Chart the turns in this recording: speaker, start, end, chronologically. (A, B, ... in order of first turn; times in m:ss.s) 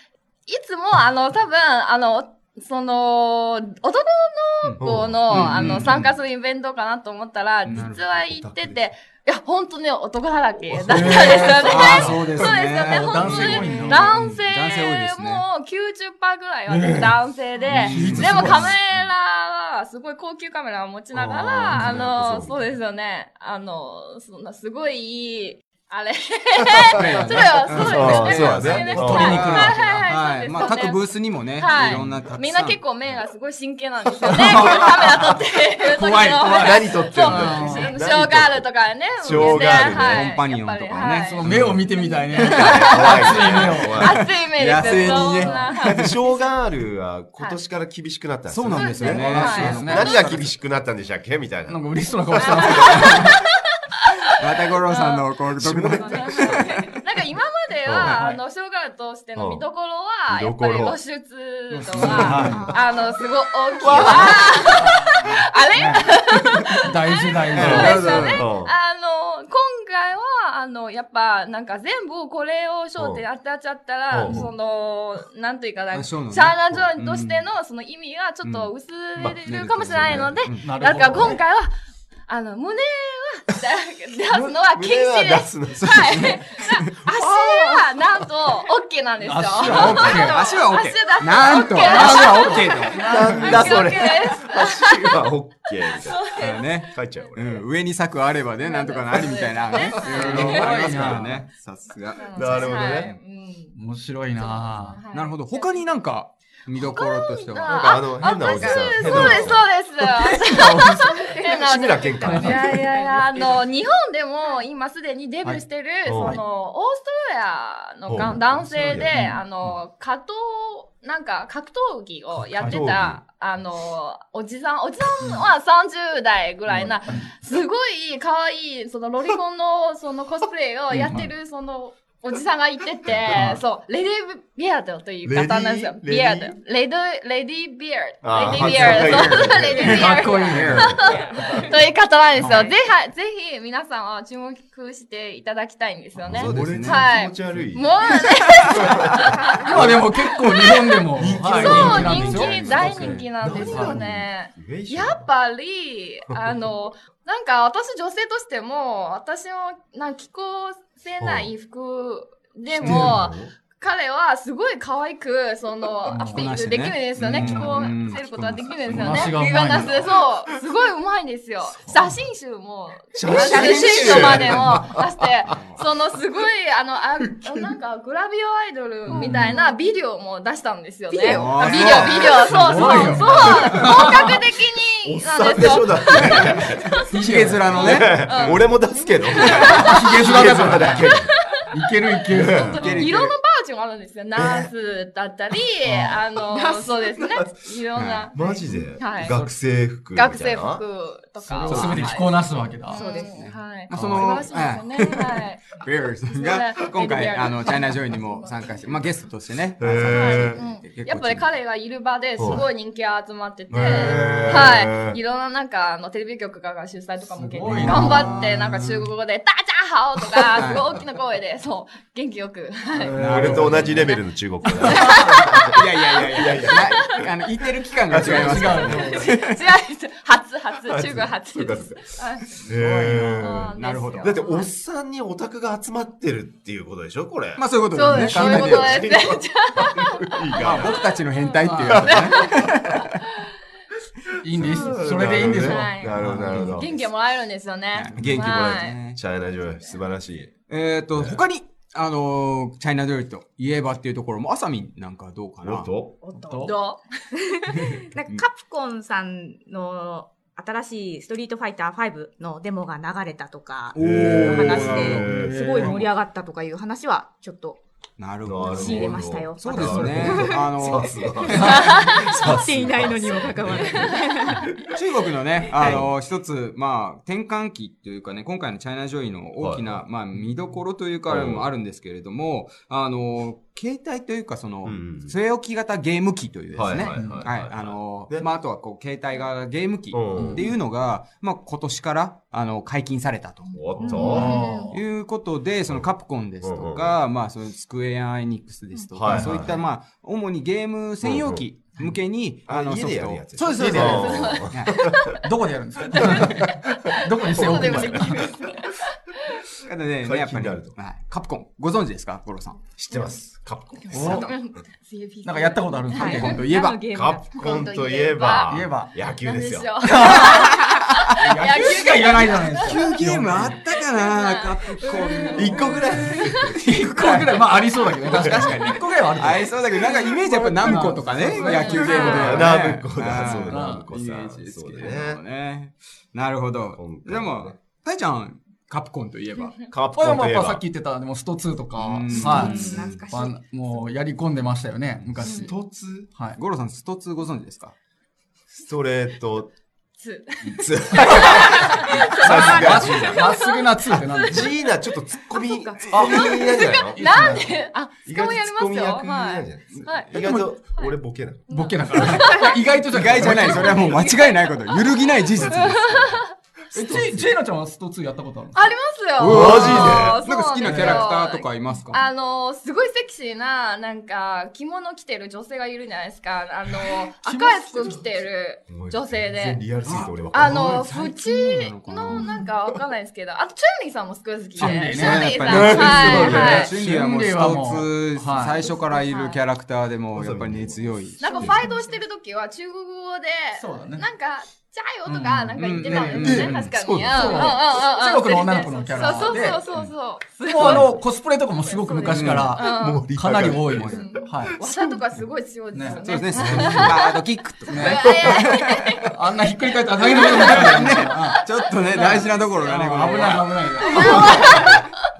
0:00.5-0:46.1 A
0:04.6-0:06.1 B
0:04.8-0:05.7 C
0:05.3-0:05.8 D
0:07.6-0:08.1 B
0:07.7-0:08.9 C
0:10.6-0:12.4 C
0:10.9-0:15.4 B
0:10.9-0:14.1 D
0:16.7-0:18.7 D
0:17.7-0:19.1 B
0:17.9-0:18.5 C
0:21.1-0:22.7 C
0:26.9-0:32.8 B
0:27.7-0:29.5 C
0:28.7-0:30.1 D
0:34.2-0:35.3 D
0:35.8-0:37.9 D
0:36.5-0:40.3 C
0:39.3-0:41.8 B
0:41.2-0:44.1 D
0:42.3-0:46.1 B
0:42.4-0:44.3 C
0:44.9-0:45.2 C
0:45.2-0:45.7 D
0:45.8-0:53.1 C
0:48.5-0:50.6 B
0:48.7-0:50.3 A
0:49.1-0:50.1 D
0:51.6-0:53.3 D
0:52.4-0:55.3 A
0:52.9-0:53.3 B
0:54.4-0:57.0 B
0:55.6-0:56.6 C
0:56.0-1:21.7 A
0:57.8-0:58.2 C
0:58.0-0:58.4 D
0:59.3-0:59.6 C
1:00.3-1:01.0 C
1:01.7-1:02.7 D
1:02.0-1:02.7 C
1:02.5-1:03.1 E
1:03.8-1:04.8 C
1:03.9-1:04.6 B
1:04.6-1:06.1 D
1:06.8-1:08.1 D
1:07.5-1:08.5 B
1:07.5-1:08.7 C
1:13.0-1:13.2 C
1:14.1-1:14.5 C
1:15.9-1:17.5 B
1:18.4-1:18.7 B
1:19.4-1:20.6 B
1:19.9-1:20.3 C
1:20.6-1:21.4 D
1:22.3-1:35.2 A
1:24.7-1:26.4 C
1:25.7-1:26.9 B
1:27.1-1:27.8 C
1:29.2-1:30.4 D
1:29.6-1:34.1 B
1:31.9-1:33.7 D
1:33.0-1:36.3 C
1:36.1-1:37.2 A
1:36.4-1:43.2 B
1:36.9-1:37.6 C
1:38.6-1:40.9 A
1:39.1-1:40.0 C
1:40.1-1:41.4 D
1:40.9-1:41.3 C
1:42.1-1:43.7 A
1:42.3-1:43.1 C
1:43.7-1:45.0 D
1:44.3-1:46.0 A
1:45.1-1:48.0 B
1:46.8-2:29.4 A
1:47.6-1:49.7 C
1:50.0-1:51.1 D
1:51.0-1:53.6 E
1:51.6-1:52.8 C
1:52.2-1:52.8 D
1:55.4-1:56.4 D
1:56.0-1:56.4 C
1:58.1-1:59.2 C
1:59.1-1:59.4 D
2:02.5-2:02.8 D
2:02.5-2:03.2 C
2:05.2-2:05.5 D
2:07.0-2:07.3 D
2:10.9-2:11.3 D
2:13.3-2:13.6 D
2:15.2-2:16.6 C
2:18.2-2:21.0 C
2:18.4-2:21.2 B
2:19.7-2:20.0 E
2:20.4-2:21.6 D
2:21.1-2:21.5 E
2:22.4-2:22.7 D
2:22.5-2:22.8 E
2:26.2-2:28.1 C
2:26.3-2:27.1 B
2:28.7-2:30.0 C
2:29.6-2:34.1 D
2:30.1-3:06.7 A
2:31.2-2:35.3 C
2:31.6-2:33.2 B
2:36.3-2:36.7 C
2:41.2-2:41.5 C
2:42.7-2:43.5 C
2:42.8-2:43.2 D
2:46.1-2:46.5 D
2:46.3-2:49.4 B
2:47.2-2:47.5 C
2:47.4-2:47.7 D
2:48.9-2:49.9 D
2:53.1-2:55.4 C
2:53.3-2:54.2 E
2:54.1-2:54.6 B
2:55.4-2:55.8 B
2:57.3-2:57.7 C
2:59.1-2:59.5 D
2:59.1-2:59.6 E
3:01.1-3:02.4 E
3:01.3-3:03.6 B
3:01.8-3:02.5 C
3:02.5-3:04.3 D
3:05.0-3:06.9 C
3:06.2-3:08.7 B
3:07.1-3:08.0 D
3:07.6-3:11.3 C
3:08.2-3:08.6 A
3:09.3-3:10.2 A
3:09.7-3:11.1 D
3:11.1-3:11.6 A
3:11.7-3:13.1 D
3:12.2-3:19.4 A
3:12.3-3:12.8 C
3:12.6-3:13.4 B
3:14.3-3:14.7 C
3:15.8-3:16.2 D
3:16.5-3:17.1 E
3:17.2-3:17.4 C
3:17.9-3:18.3 B
3:18.3-3:20.8 C
3:19.2-3:19.5 D
3:20.1-3:25.7 A
3:21.4-3:23.1 D
3:21.7-3:22.1 B
3:22.9-3:23.5 E
3:23.3-3:31.5 B
3:26.3-3:29.0 A
3:29.8-3:30.6 C
3:30.0-3:43.2 A
3:32.4-3:32.6 C
3:33.7-3:35.2 C
3:33.8-3:34.7 D
3:37.3-3:38.3 D
3:37.7-3:38.1 C
3:37.7-3:39.0 B
3:40.5-3:41.0 B
3:42.9-3:44.1 D
3:43.1-3:44.1 B
3:43.2-3:47.2 C
3:44.8-3:45.3 D
3:44.9-3:45.7 A
3:45.7-3:49.6 B
3:48.1-3:49.0 C
3:48.2-3:49.3 D
3:49.0-3:54.7 A
3:50.9-4:01.1 C
3:52.7-3:53.5 D
3:53.7-3:54.4 B
3:57.6-3:59.0 B
3:57.9-4:02.6 A
4:00.6-4:03.2 B
4:01.6-4:02.1 D
4:01.9-4:02.5 C
4:04.4-4:06.5 D
4:04.5-4:07.1 C
4:05.6-4:09.0 A
4:06.2-4:06.8 B
4:07.9-4:09.2 B
4:08.2-4:10.5 C
4:09.7-4:10.0 A
4:10.7-4:15.9 B
4:15.6-4:16.1 C
4:16.2-4:16.8 E
4:16.3-4:16.8 D
4:16.6-4:17.3 A
4:17.3-4:27.8 E
4:17.7-4:18.4 B
4:23.9-4:25.3 B
4:24.0-4:25.6 C
4:25.0-4:26.1 D
4:28.2-4:32.1 B
4:28.4-4:34.9 C
4:28.6-4:34.6 E
4:33.9-4:34.4 A
4:34.8-5:05.0 B
4:35.7-4:36.2 C
4:39.6-4:40.0 C
4:41.2-4:41.7 C
4:44.8-4:45.3 C
4:46.7-4:48.5 C
4:47.0-4:47.5 D
4:50.1-4:50.7 C
4:50.3-4:50.6 D
4:53.7-4:54.5 C
4:54.0-4:54.9 E
4:54.0-4:55.0 D
4:54.3-4:54.6 A
4:56.6-4:57.2 C
4:59.1-4:59.8 C
4:59.3-4:59.6 D
5:01.2-5:01.7 C
5:02.7-5:05.1 C
5:03.7-5:04.2 D
5:04.1-5:05.4 A
5:05.4-5:08.5 D
5:06.1-5:06.4 A
5:07.1-5:09.7 A
5:07.5-5:08.5 C
5:09.8-5:12.8 B
5:10.2-5:10.9 C
5:13.0-5:14.6 C
5:13.1-5:13.4 A
5:14.0-5:16.5 A
5:14.1-5:14.5 D
5:15.4-5:16.6 D
5:16.1-5:17.5 E
5:16.2-5:17.0 B
5:17.1-5:20.0 C
5:17.5-5:23.0 A
5:18.7-5:19.1 D
5:20.0-5:20.8 D
5:20.9-5:21.3 B
5:21.4-5:23.8 D
5:22.8-5:39.8 B
5:23.7-5:25.7 A
5:25.0-5:26.4 E
5:25.5-5:26.8 C
5:26.4-5:26.8 A
5:26.8-5:32.7 D
5:28.3-5:28.9 C
5:31.5-5:32.7 A
5:32.4-5:35.4 C
5:33.4-5:34.0 D
5:36.9-5:37.8 C
5:39.9-5:40.8 C
5:40.1-5:45.8 D
5:42.0-5:43.3 B
5:42.3-5:44.1 E
5:45.4-5:46.3 C
5:45.4-5:45.7 A
5:46.3-5:46.6 D
5:46.6-5:47.9 B
5:48.7-5:49.7 C
5:50.2-5:54.7 A
5:50.8-5:53.5 C
5:51.1-5:54.7 D
5:54.5-5:57.2 C
5:55.5-6:00.3 A
5:56.1-5:57.7 D
5:58.2-6:02.2 C
6:00.4-6:00.7 D
6:01.7-6:02.9 A
6:01.7-6:04.2 D
6:02.1-6:02.4 B
6:02.4-6:03.0 E
6:03.1-6:06.4 B
6:03.3-6:03.6 C
6:03.7-6:04.7 A
6:05.6-6:06.6 A
6:06.9-6:08.9 D
6:07.0-6:07.4 C
6:08.7-6:19.8 A
6:09.4-6:12.2 B
6:09.4-6:10.4 C
6:10.8-6:11.2 D
6:17.4-6:18.2 D
6:18.9-6:21.1 C
6:20.0-6:22.5 B
6:20.5-6:26.9 A
6:24.8-6:28.9 D
6:24.8-6:31.6 B
6:25.6-6:26.9 C
6:28.6-6:29.6 A
6:30.3-6:31.9 C
6:31.4-6:41.1 A
6:33.7-6:34.3 D
6:35.3-6:37.0 B
6:35.8-6:36.7 D
6:36.3-6:37.7 C
6:37.3-6:39.8 D
6:40.6-6:44.7 D
6:41.8-6:43.3 A
6:42.3-6:42.8 B
6:42.5-6:45.2 C
6:43.9-6:44.2 B
6:44.1-6:47.4 A
6:45.9-6:46.2 D
6:46.2-6:49.2 B
6:46.5-6:47.2 C
6:47.9-6:48.2 D
6:48.0-6:49.3 A
6:48.2-6:48.6 C
6:49.3-6:51.6 D
6:50.2-6:50.9 A
6:50.4-6:54.4 B
6:51.5-6:52.6 A
6:52.2-6:55.0 D
6:54.0-6:55.2 A